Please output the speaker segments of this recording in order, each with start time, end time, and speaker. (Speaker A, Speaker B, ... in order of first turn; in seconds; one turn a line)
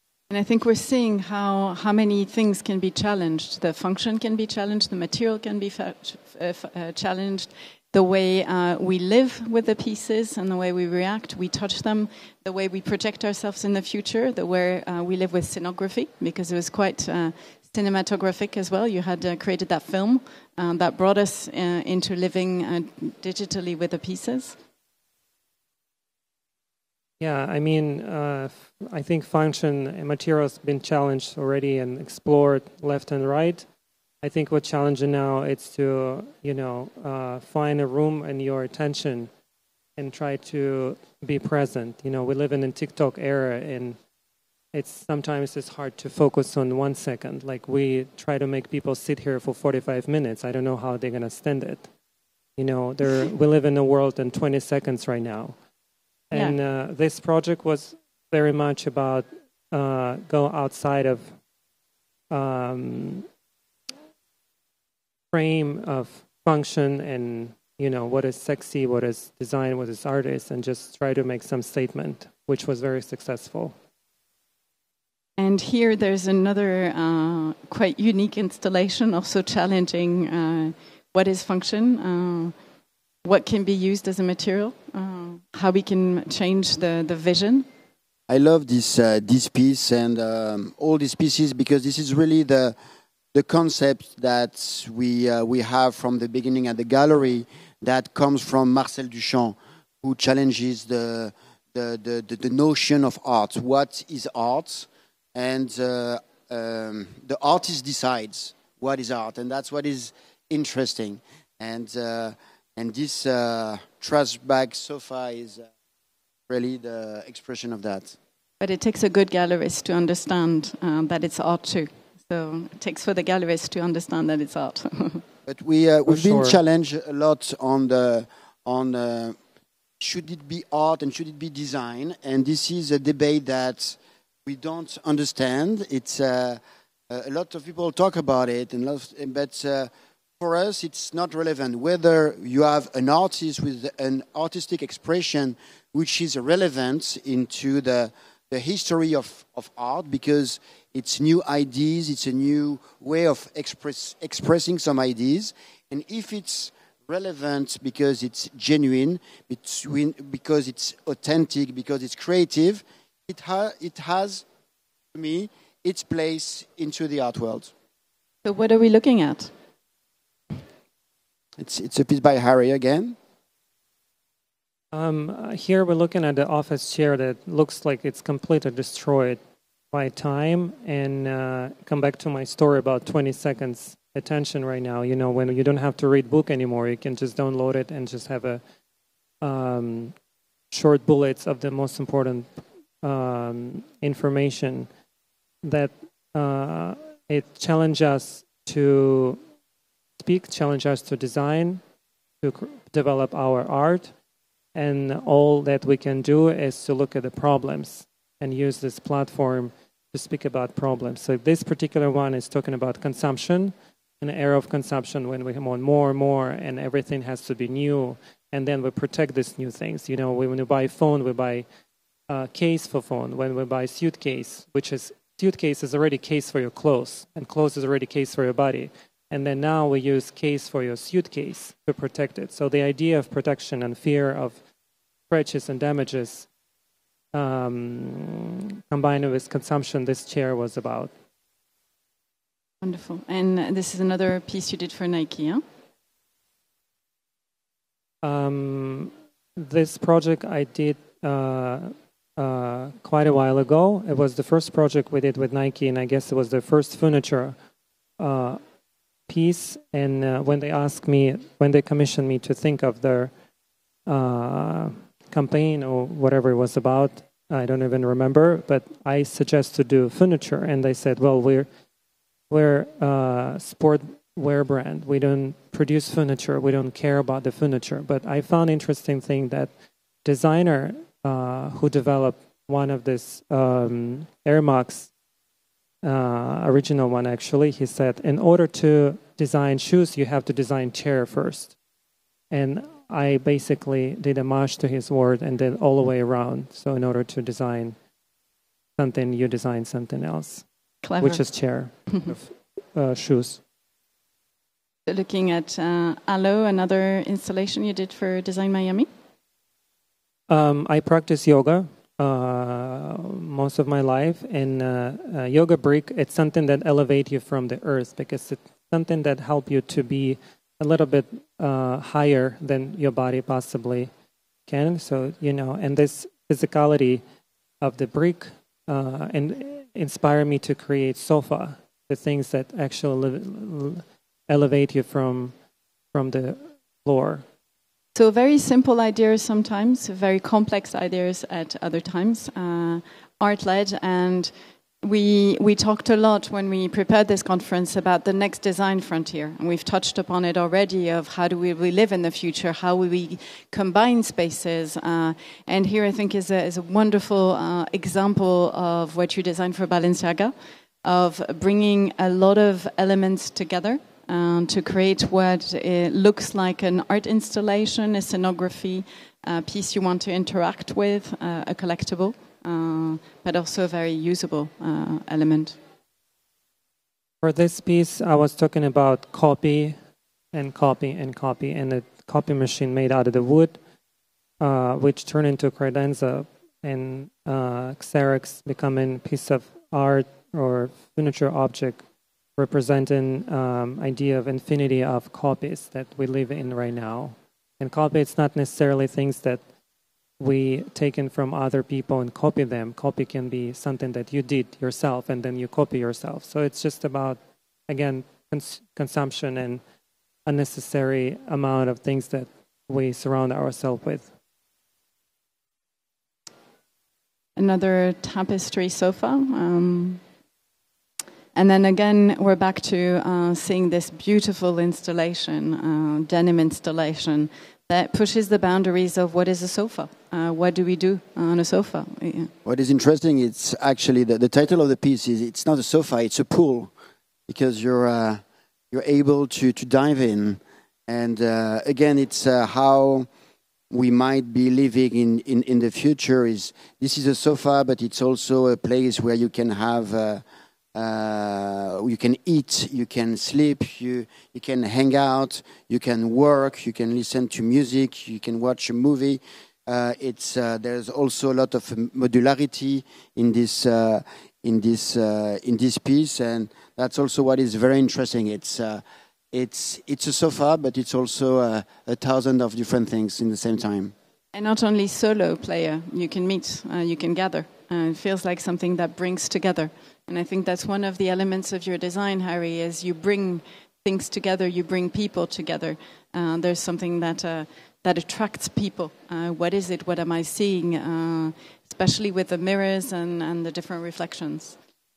Speaker A: 0.3-24.6
Speaker B: 27.2-33.6
Speaker B: 34.2-39.3
Speaker B: 40.0-44.0
Speaker B: 44.7-51.9
Speaker B: 52.6-55.5
Speaker B: 56.3-61.3
Speaker A: 56.3-56.6
Speaker B: 62.3-63.2
Speaker B: 65.3-73.7
Speaker A: 75.4-82.5
Speaker A: 83.2-87.7
Speaker C: 88.3-92.8
Speaker C: 93.3-115.7
Speaker C: 116.5-118.2
Speaker A: 118.6-125.2
Speaker C: 125.5-129.3
Speaker B: 126.1-126.6
Speaker C: 130.0-164.4
Speaker C: 165.1-167.7
Speaker A: 168.4-169.5
Speaker C: 171.6-173.2
Speaker B: 174.9-179.4
Speaker B: 179.9-188.6
Speaker B: 189.4-190.1
Speaker B: 190.7-194.9
Speaker B: 195.6-199.4
Speaker B: 200.2-201.8
Speaker B: 202.4-204.1
Speaker B: 204.7-221.6
Speaker B: 222.3-234.6
Speaker B: 235.3-236.5
Speaker B: 237.3-241.1
Speaker A: 242.8-245.6
Speaker B: 248.2-257.6
Speaker B: 258.2-258.6
Speaker B: 259.3-263.3
Speaker B: 264.1-271.7
Speaker B: 272.5-279.7
Speaker B: 280.2-285.1
Speaker B: 286.0-291.7
Speaker B: 292.5-297.9
Speaker B: 299.0-300.6
Speaker A: 301.0-301.4
Speaker B: 301.2-303.6
Speaker A: 305.1-309.1
Speaker B: 310.5-324.1
Speaker B: 324.7-327.2
Speaker B: 327.8-335.5
Speaker B: 336.1-337.4
Speaker A: 338.1-360.5
Speaker A: 361.0-375.8
Speaker B: 377.4-379.9
Speaker B: 380.5-383.8
Speaker B: 384.6-392.0
Speaker B: 392.6-399.6
Speaker B: 400.4-409.8
Speaker B: 410.4-414.3
Speaker A: 417.6-420.2
Speaker A: 421.5-432.5
Speaker C: 432.6-436.9
Speaker C: 437.5-443.3
Speaker C: 443.9-450.4
Speaker C: 450.9-474.1
Speaker A: 474.5-494.8